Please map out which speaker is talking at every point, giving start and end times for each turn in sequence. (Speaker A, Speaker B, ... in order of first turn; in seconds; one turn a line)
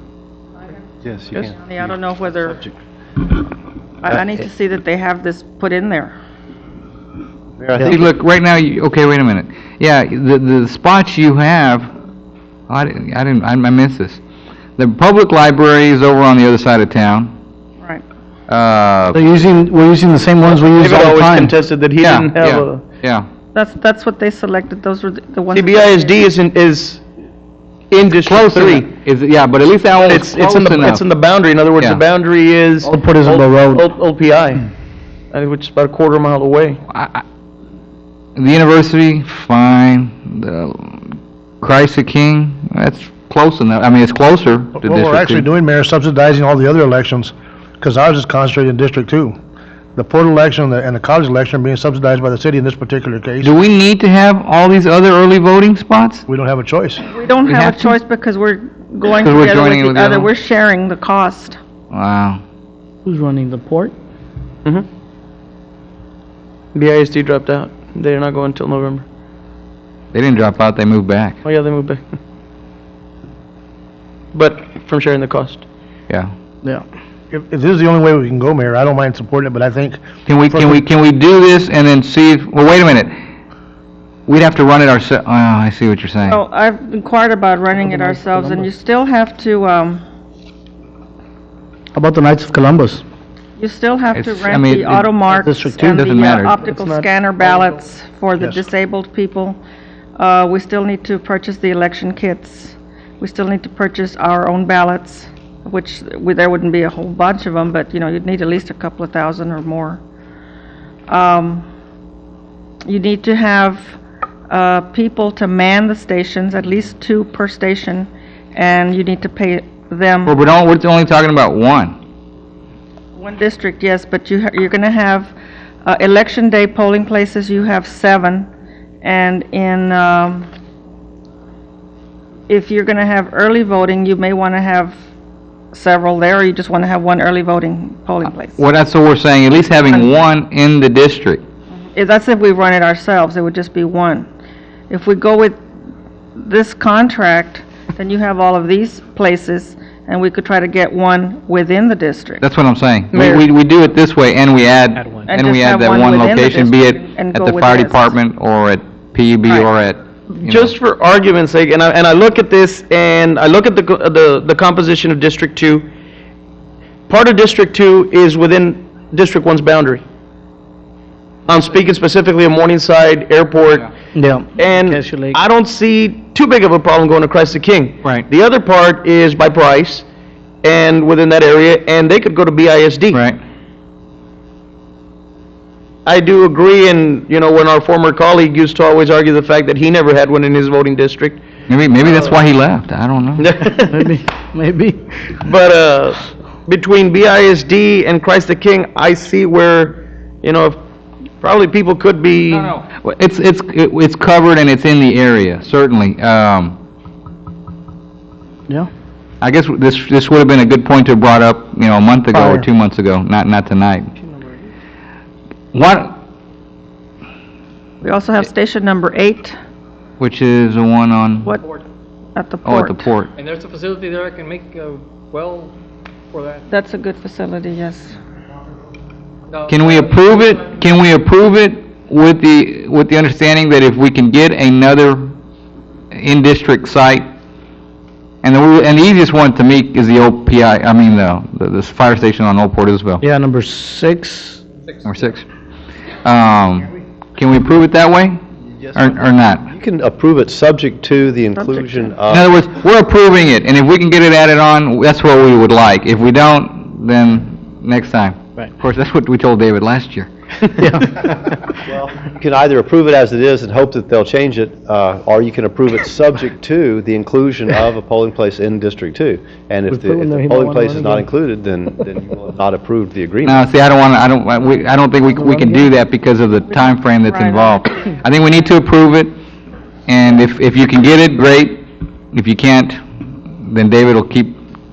Speaker A: 0.6-2.7
Speaker B: 1.0-1.5
Speaker A: 4.0-6.2
Speaker B: 7.6-8.1
Speaker C: 7.9-11.9
Speaker C: 12.7-14.2
Speaker C: 14.8-17.3
Speaker A: 17.8-18.1
Speaker C: 18.5-19.2
Speaker D: 19.1-21.6
Speaker E: 20.7-22.8
Speaker C: 22.0-23.3
Speaker A: 23.5-26.2
Speaker E: 25.5-27.0
Speaker E: 27.9-28.9
Speaker C: 28.2-31.0
Speaker E: 30.0-34.7
Speaker D: 32.8-33.9
Speaker E: 35.3-36.8
Speaker C: 36.9-37.2
Speaker C: 38.4-41.1
Speaker C: 41.6-45.5
Speaker F: 44.8-49.4
Speaker F: 50.0-53.5
Speaker C: 53.4-56.3
Speaker F: 56.3-57.1
Speaker A: 57.0-61.6
Speaker C: 57.5-58.0
Speaker C: 59.2-60.3
Speaker C: 61.9-62.4
Speaker D: 63.0-63.9
Speaker E: 66.7-69.0
Speaker C: 70.1-71.4
Speaker E: 71.4-72.0
Speaker E: 74.3-75.6
Speaker F: 77.3-80.8
Speaker C: 80.3-83.1
Speaker C: 84.3-86.4
Speaker A: 86.3-90.0
Speaker D: 92.0-93.0
Speaker A: 93.6-99.6
Speaker C: 94.1-95.1
Speaker D: 95.4-96.0
Speaker C: 95.8-96.6
Speaker E: 96.7-97.8
Speaker F: 98.4-98.6
Speaker A: 100.2-110.0
Speaker A: 111.1-111.7
Speaker A: 112.8-120.3
Speaker C: 120.3-122.0
Speaker A: 123.2-128.5
Speaker A: 129.0-130.5
Speaker A: 132.5-135.0
Speaker A: 135.7-138.6
Speaker C: 138.6-141.4
Speaker A: 139.9-140.2
Speaker A: 141.9-144.3
Speaker A: 144.9-145.6
Speaker A: 146.3-152.4
Speaker C: 152.4-160.7
Speaker E: 153.1-153.4
Speaker A: 155.2-158.2
Speaker A: 159.4-159.7
Speaker E: 160.3-165.9
Speaker E: 167.1-170.0
Speaker E: 171.5-173.9
Speaker D: 174.2-175.4
Speaker E: 174.6-180.1
Speaker E: 180.6-183.2
Speaker C: 183.1-183.4
Speaker E: 186.1-191.4
Speaker C: 191.7-193.5
Speaker E: 193.4-194.1
Speaker D: 193.9-195.2
Speaker E: 195.4-200.8
Speaker E: 201.4-202.8
Speaker C: 202.7-206.8
Speaker C: 209.4-214.1
Speaker D: 212.3-212.7
Speaker C: 215.7-216.2
Speaker A: 218.0-219.6
Speaker C: 220.2-221.6
Speaker A: 222.3-223.1
Speaker C: 222.7-223.3
Speaker G: 223.4-225.7
Speaker G: 226.3-226.6
Speaker A: 226.7-228.2
Speaker G: 229.5-230.1
Speaker C: 229.7-235.3
Speaker C: 236.1-237.3
Speaker C: 238.4-243.2
Speaker D: 243.2-244.6
Speaker C: 245.1-245.5
Speaker C: 246.2-248.4
Speaker B: 248.8-252.5
Speaker C: 248.9-249.7
Speaker A: 251.6-252.1
Speaker C: 252.3-260.3
Speaker D: 260.8-261.6
Speaker B: 261.8-273.6
Speaker D: 269.9-271.2
Speaker C: 273.4-279.3
Speaker D: 275.4-275.9
Speaker A: 276.7-278.2
Speaker C: 280.1-283.0
Speaker C: 283.6-284.6